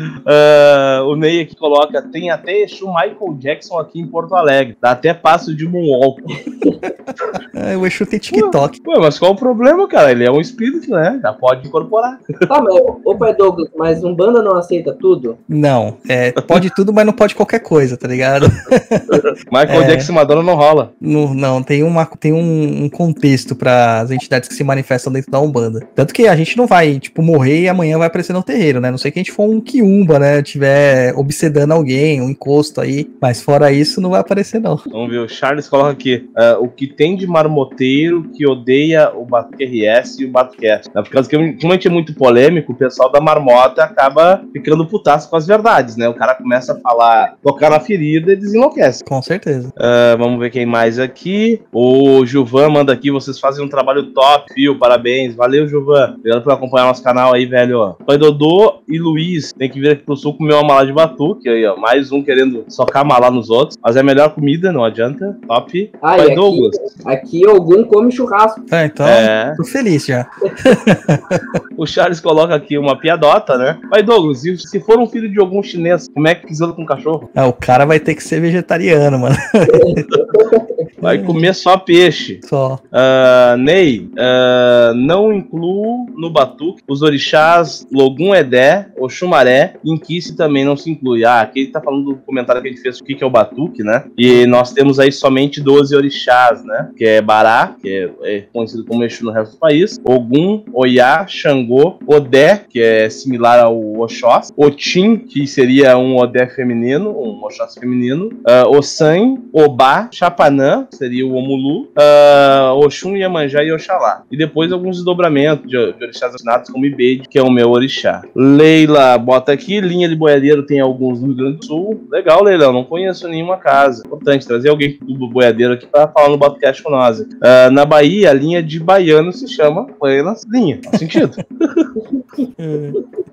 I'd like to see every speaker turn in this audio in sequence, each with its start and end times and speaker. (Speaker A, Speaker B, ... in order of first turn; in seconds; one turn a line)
Speaker A: 0.2-6.2
Speaker B: 6.5-6.9
Speaker C: 7.5-8.8
Speaker A: 8.3-12.2
Speaker B: 12.5-15.4
Speaker C: 15.5-20.1
Speaker A: 19.1-20.9
Speaker C: 21.0-34.8
Speaker A: 34.9-49.0
Speaker C: 49.1-49.7
Speaker A: 49.8-66.9
Speaker B: 66.0-68.6
Speaker C: 68.7-71.6
Speaker A: 69.0-69.6
Speaker B: 70.5-70.8
Speaker A: 71.8-77.3
Speaker C: 77.3-80.0
Speaker B: 79.7-80.7
Speaker C: 81.0-81.5
Speaker A: 81.0-131.9
Speaker C: 82.4-82.8
Speaker C: 94.3-94.6
Speaker C: 132.6-133.0